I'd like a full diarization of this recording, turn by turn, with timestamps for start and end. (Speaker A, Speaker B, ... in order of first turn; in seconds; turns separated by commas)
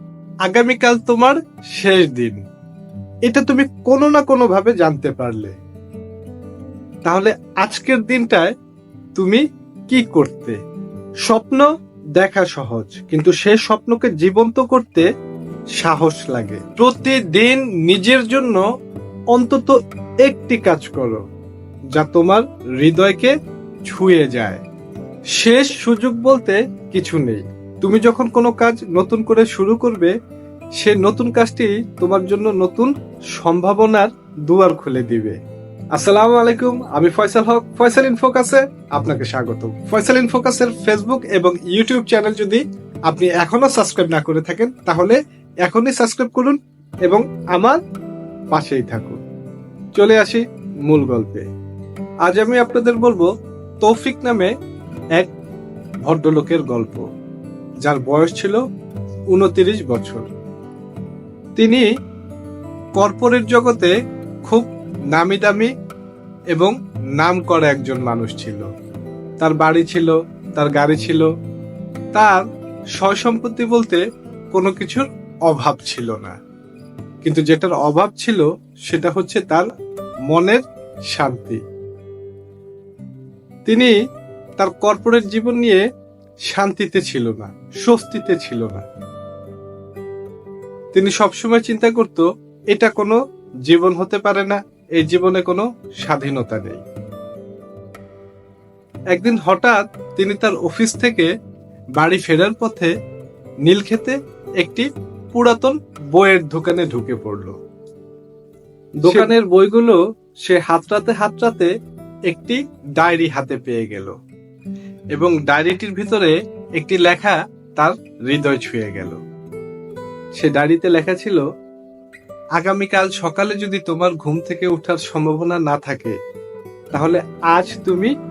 Speaker A: 0.5-2.4, Speaker A: 3.3-5.5, Speaker A: 7.0-8.5, Speaker A: 9.2-10.6, Speaker A: 11.3-15.1, Speaker A: 15.8-18.6, Speaker A: 19.3-21.2, Speaker A: 21.9-23.3, Speaker A: 23.9-24.6, Speaker A: 25.4-30.1, Speaker A: 30.8-35.4, Speaker A: 35.9-47.8, Speaker A: 48.5-49.2, Speaker A: 49.9-51.4, Speaker A: 52.2-53.3, Speaker A: 53.8-54.5, Speaker A: 56.0-57.0, Speaker A: 57.9-58.6, Speaker A: 59.3-60.3, Speaker A: 61.5-61.9, Speaker A: 63.0-63.9, Speaker A: 64.5-65.7, Speaker A: 66.5-68.7, Speaker A: 69.4-71.3, Speaker A: 72.1-72.4, Speaker A: 73.0-76.3, Speaker A: 77.2-79.7, Speaker A: 80.3-81.6, Speaker A: 83.7-83.9, Speaker A: 84.6-85.8, Speaker A: 86.5-88.8, Speaker A: 90.9-96.8, Speaker A: 99.1-101.3, Speaker A: 102.0-102.9, Speaker A: 103.7-107.6, Speaker A: 109.0-111.7, Speaker A: 112.3-114.1, Speaker A: 115.1-119.2, Speaker A: 120.3-121.5, Speaker A: 122.6-126.2, Speaker A: 126.9-128.1